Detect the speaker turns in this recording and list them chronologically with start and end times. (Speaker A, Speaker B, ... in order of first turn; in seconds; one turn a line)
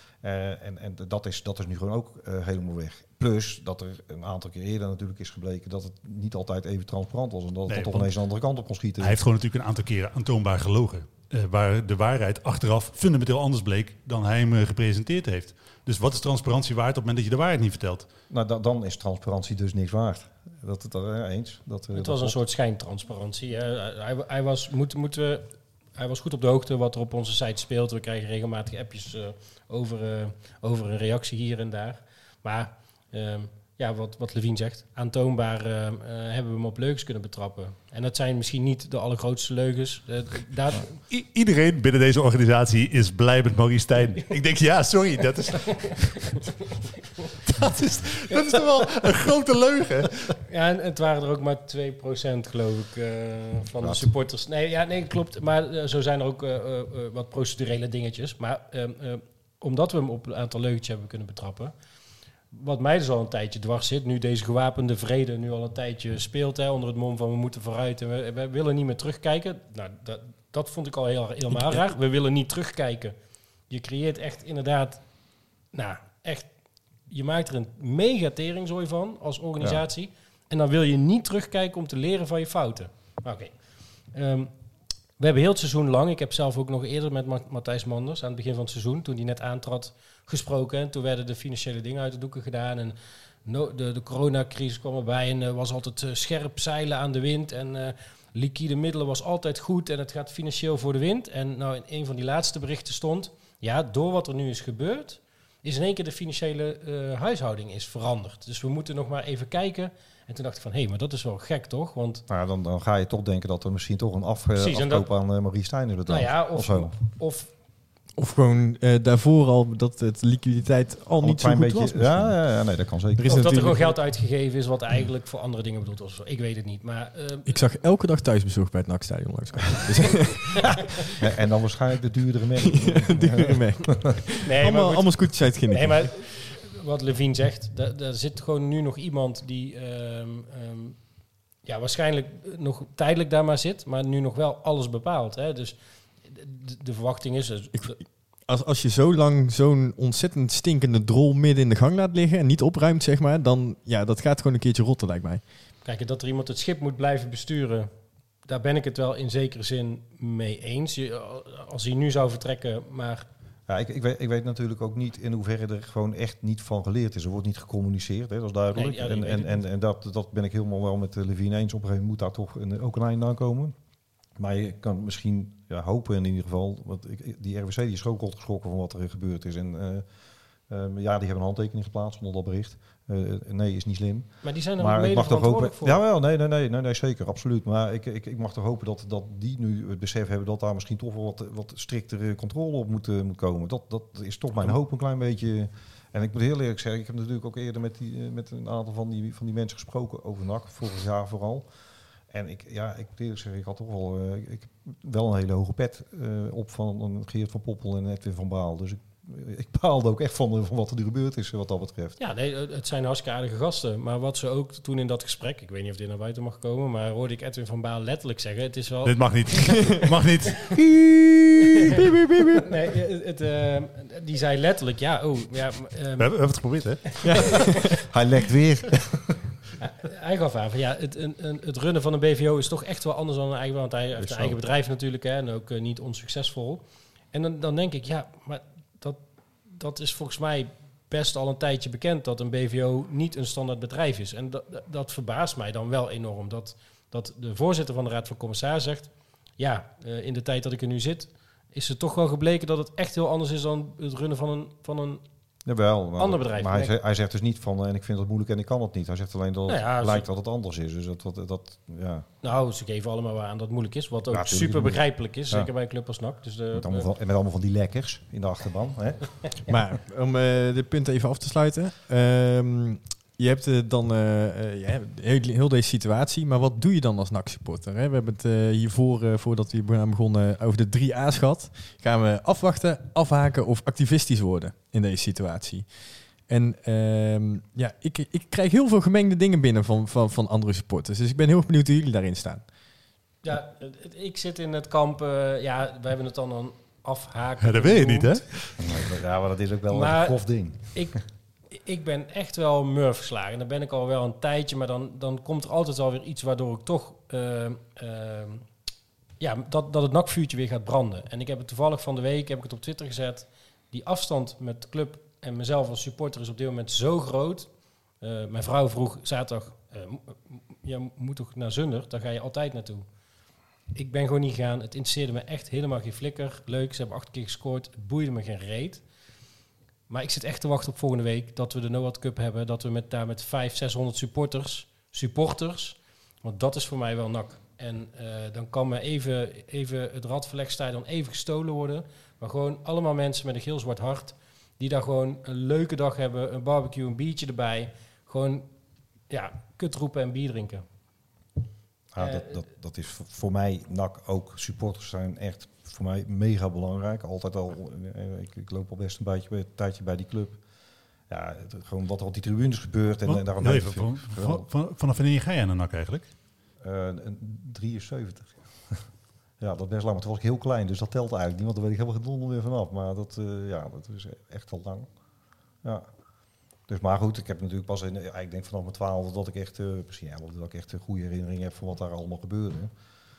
Speaker A: 0.2-9.2
Speaker B: 7.7-8.1
Speaker B: 9.0-18.1
Speaker A: 18.3-22.4
Speaker C: 21.9-40.9
Speaker B: 41.1-46.5
Speaker B: 47.4-50.3
Speaker C: 50.5-61.7
Speaker A: 53.8-54.1
Speaker C: 62.5-73.1
Speaker C: 73.7-75.0
Speaker C: 75.7-76.5
Speaker C: 77.1-83.5
Speaker C: 84.1-84.5
Speaker C: 85.2-112.2
Speaker A: 112.3-117.0
Speaker C: 114.6-115.1
Speaker C: 116.1-117.5
Speaker D: 118.2-122.4
Speaker A: 121.2-123.6
Speaker D: 123.1-124.0
Speaker C: 123.2-127.6
Speaker D: 127.5-131.0
Speaker A: 131.1-134.2
Speaker D: 132.6-136.1
Speaker C: 134.4-141.0
Speaker C: 141.6-148.0
Speaker D: 147.7-155.4
Speaker C: 155.8-157.9
Speaker C: 158.5-163.2
Speaker A: 163.7-173.7
Speaker C: 168.7-169.6
Speaker A: 174.4-180.0
Speaker A: 180.7-201.7
Speaker C: 184.4-186.0
Speaker A: 202.3-212.2
Speaker C: 212.2-219.3
Speaker B: 219.0-220.8
Speaker D: 221.7-222.7
Speaker C: 222.6-226.3
Speaker B: 226.2-227.2
Speaker D: 227.2-228.0
Speaker A: 228.1-229.4
Speaker C: 229.8-255.2
Speaker A: 234.2-234.6
Speaker A: 255.7-262.2
Speaker C: 256.2-256.9
Speaker C: 259.7-260.3
Speaker C: 262.4-267.1
Speaker A: 264.3-265.7
Speaker A: 266.7-269.6
Speaker D: 269.7-292.6
Speaker C: 293.4-298.4
Speaker B: 297.6-299.0
Speaker A: 298.8-301.0
Speaker C: 299.9-301.2
Speaker C: 301.7-308.7
Speaker C: 309.4-317.7
Speaker C: 318.2-323.1
Speaker C: 323.9-329.0
Speaker C: 330.1-348.7
Speaker C: 349.3-350.8
Speaker A: 352.1-360.6
Speaker C: 352.2-352.5
Speaker A: 361.3-364.6
Speaker B: 363.2-366.3
Speaker A: 366.8-369.0
Speaker A: 369.6-375.1
Speaker A: 376.9-382.9